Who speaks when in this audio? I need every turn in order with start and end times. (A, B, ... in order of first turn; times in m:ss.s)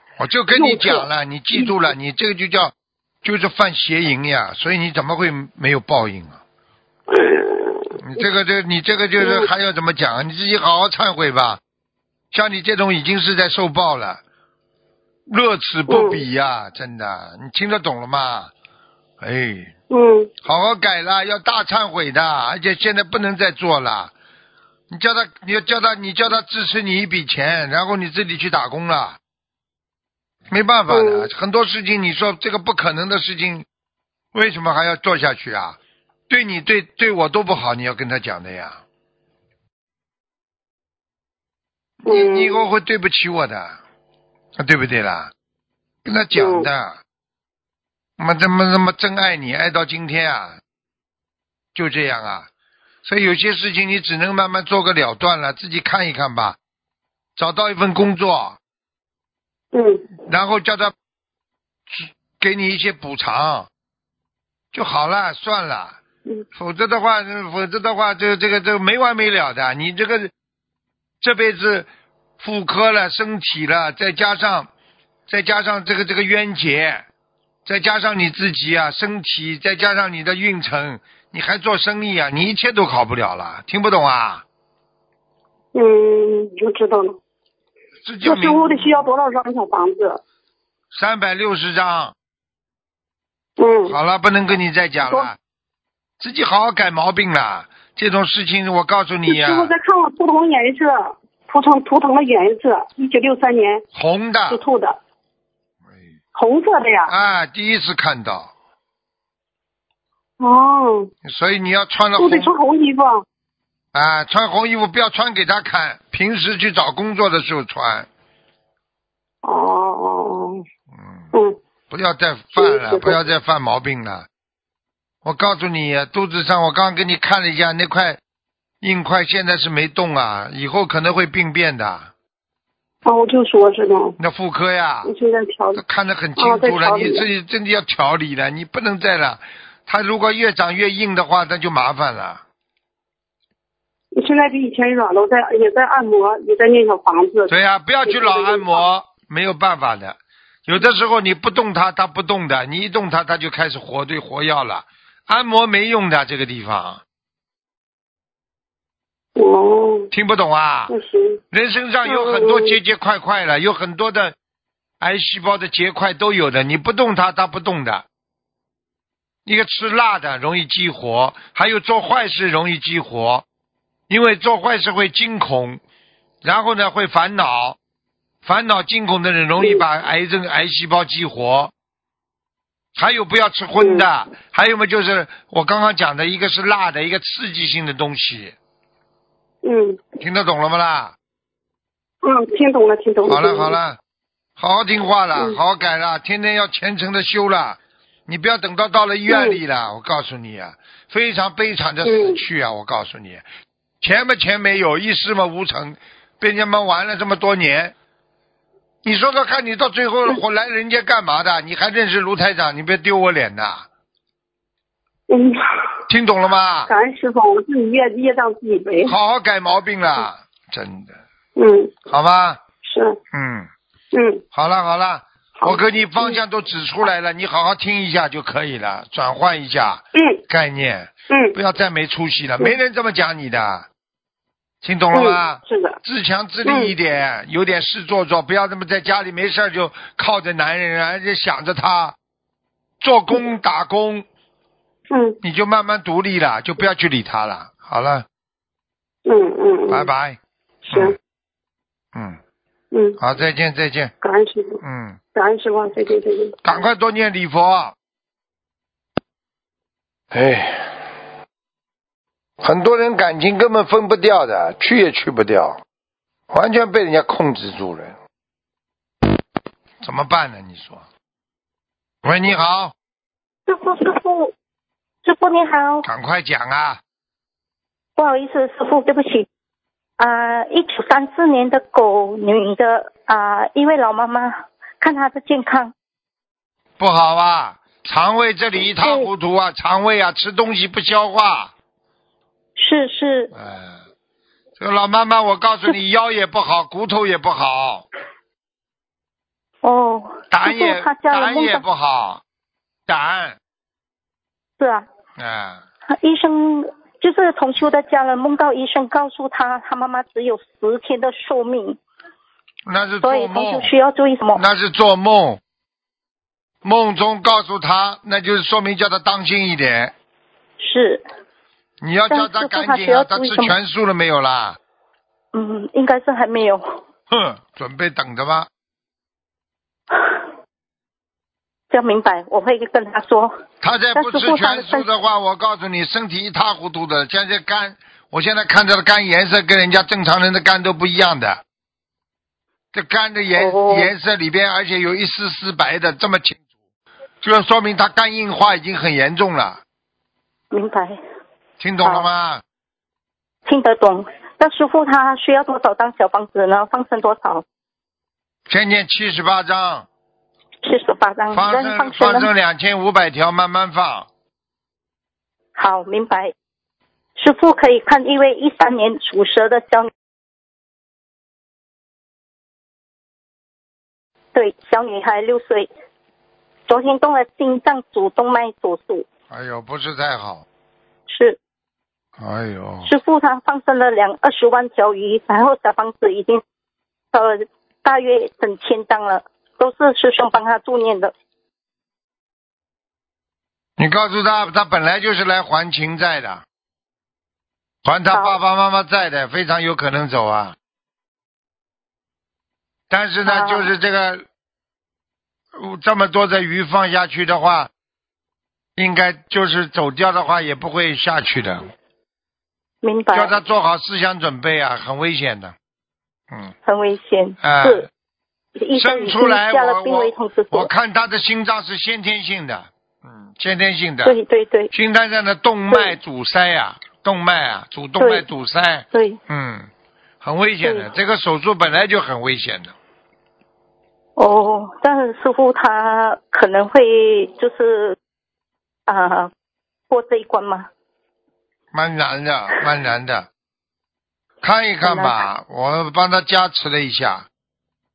0:00.2-0:06.4 A
0:00.5-0:01.8 B
0:07.1-0:08.0 B
0:08.0-0:11.6 A
0:09.2-0:09.5 B
0:12.3-0:14.2 A
0:15.3-0:18.5 A
0:15.9-0:16.2 B
0:19.2-0:19.7 A
0:19.9-0:20.3 B
0:20.4-0:24.1 A
0:24.9-0:29.2 A
0:30.5-0:33.7 A
0:30.9-0:31.3 B
0:34.3-0:35.8 A
0:36.3-0:38.8 A
0:42.0-0:43.8 A
0:42.1-0:42.6 B
0:44.6-0:45.3 A
0:46.0-0:47.0 A
0:46.4-0:46.7 B
0:48.2-0:50.6 A
0:51.7-0:52.5 A
0:53.0-0:56.6 A
0:57.4-0:58.6 A
0:59.7-1:00.1 B
1:00.3-1:00.9 A
1:01.9-1:03.7 A
1:04.7-1:06.0 A
1:06.6-1:10.3 A
1:11.2-1:11.9 A
1:12.4-1:14.7 A
1:15.3-1:17.1 A
1:17.6-1:24.4 A
1:25.7-1:27.2 B
1:28.0-1:29.1 A
1:28.2-1:30.2 B
1:30.9-1:32.1 A
1:33.6-1:34.0 B
1:33.9-1:35.4 A
1:36.2-1:39.7 A
1:39.3-1:43.8 B
1:43.9-1:44.6 A
1:44.5-1:45.0 B
1:46.4-1:47.1 B
1:47.1-1:48.5 A
1:50.4-1:51.1 B
1:51.2-1:52.5 A
1:52.2-1:53.2 B
1:53.9-1:58.1 A
1:59.4-2:00.6 B
2:01.0-2:01.3 A
2:01.9-2:04.3 A
2:02.6-2:03.2 B
2:05.2-2:08.2 A
2:08.8-2:12.1 A
2:13.0-2:14.2 B
2:14.2-2:15.1 A
2:15.0-2:15.8 B
2:15.8-2:22.4 A
2:16.4-2:17.3 B
2:24.1-2:27.5 B
2:27.5-2:37.0 A
2:28.0-2:28.8 B
2:39.4-2:40.1 B
2:40.1-2:40.9 A
2:40.9-2:41.4 B
2:41.5-2:44.4 A
2:42.1-2:42.8 B
2:45.0-2:48.0 A
2:49.5-2:53.4 A
2:54.1-2:55.8 A
2:56.4-2:57.8 A
2:58.4-3:01.7 A
3:03.0-3:08.6 A
3:03.8-3:04.1 B
3:09.6-3:10.0 B
3:10.2-3:11.2 A
3:12.2-3:13.8 B
3:13.3-3:14.0 A
3:14.6-3:23.5 A
3:19.3-3:19.6 B
3:22.0-3:22.4 B
3:24.0-3:27.9 A
3:29.0-3:33.9 A
3:35.3-3:35.9 B
3:36.1-3:36.9 A
3:36.9-3:39.2 B
3:39.0-3:41.2 A
3:41.6-3:41.9 B
3:42.1-3:42.6 A
3:42.8-3:43.2 B
3:43.3-3:43.7 A
3:44.1-3:44.4 B
3:44.5-3:53.9 A
3:45.6-3:46.4 B
3:50.2-3:50.4 B
3:51.3-3:51.6 B
3:54.8-4:02.2 A
3:55.1-3:56.0 B
3:56.6-3:56.9 B
4:03.0-4:04.3 A
4:05.1-4:05.4 B
4:05.4-4:08.3 A
4:09.3-4:10.1 B
4:09.9-4:10.4 A
4:10.8-4:11.2 B
4:10.9-4:11.2 A
4:12.9-4:13.2 B
4:13.2-4:14.1 A
4:14.2-4:14.8 B
4:14.8-4:15.2 A
4:15.4-4:16.6 B
4:16.6-4:18.0 A
4:20.3-4:21.0 A
4:22.6-4:25.8 A
4:26.5-4:28.2 A
4:30.0-4:31.1 A
4:32.2-4:32.9 A
4:33.7-4:34.5 C
4:35.2-4:36.1 C
4:36.0-4:37.0 A
4:38.2-4:39.5 C
4:40.2-4:45.9 C
4:47.0-4:51.7 A
4:49.0-4:49.3 C
4:52.8-4:53.5 C
4:53.5-4:54.0 A
4:54.8-4:58.1 A
4:59.8-5:01.8 C
5:00.5-5:02.4 A
5:03.1-5:03.6 A
5:04.8-5:05.1 C
5:05.4-5:05.8 A
5:06.1-5:12.0 C
5:12.9-5:13.9 A
5:13.2-5:14.6 C
5:14.6-5:15.6 A
5:16.8-5:20.1 A
5:20.8-5:21.2 C
5:22.0-5:24.8 A
5:22.3-5:23.8 C
5:25.5-5:27.0 C
5:27.3-5:28.7 A
5:31.9-5:33.6 C
5:33.8-5:41.6 A
5:34.2-5:35.1 C
5:42.9-5:46.6 A
5:43.6-5:44.1 C
5:47.4-5:49.8 A
5:50.7-5:51.2 C
5:51.8-5:52.6 A
5:53.6-5:57.6 C
5:58.7-6:00.1 A
6:00.8-6:02.5 C
6:01.5-6:04.3 A
6:05.8-6:06.5 C
6:07.4-6:10.1 C
6:14.5-6:15.9 C
6:16.9-6:19.3 C
6:19.5-6:20.7 A
6:21.3-6:21.6 C
6:22.4-6:23.1 A
6:23.0-6:26.6 C
6:27.3-6:31.3 C
6:34.0-6:36.6 A
6:38.0-6:40.8 A
6:43.1-6:44.4 A
6:43.4-6:43.9 C
6:45.8-6:47.9 A
6:49.0-6:51.9 A
6:53.0-6:53.6 C
6:53.3-6:55.8 A
6:56.8-6:58.1 C
6:57.6-6:58.1 A
6:58.8-7:00.9 C
6:59.0-7:04.4 A
7:04.2-7:04.9 C
7:04.9-7:09.9 A
7:08.2-7:08.5 C
7:09.1-7:09.4 C
7:10.4-7:12.9 A
7:10.8-7:11.1 C
7:14.4-7:18.2 C
7:19.1-7:19.5 C
7:20.1-7:20.9 C
7:21.9-7:23.5 A
7:24.6-7:27.5 A
7:25.0-7:25.4 C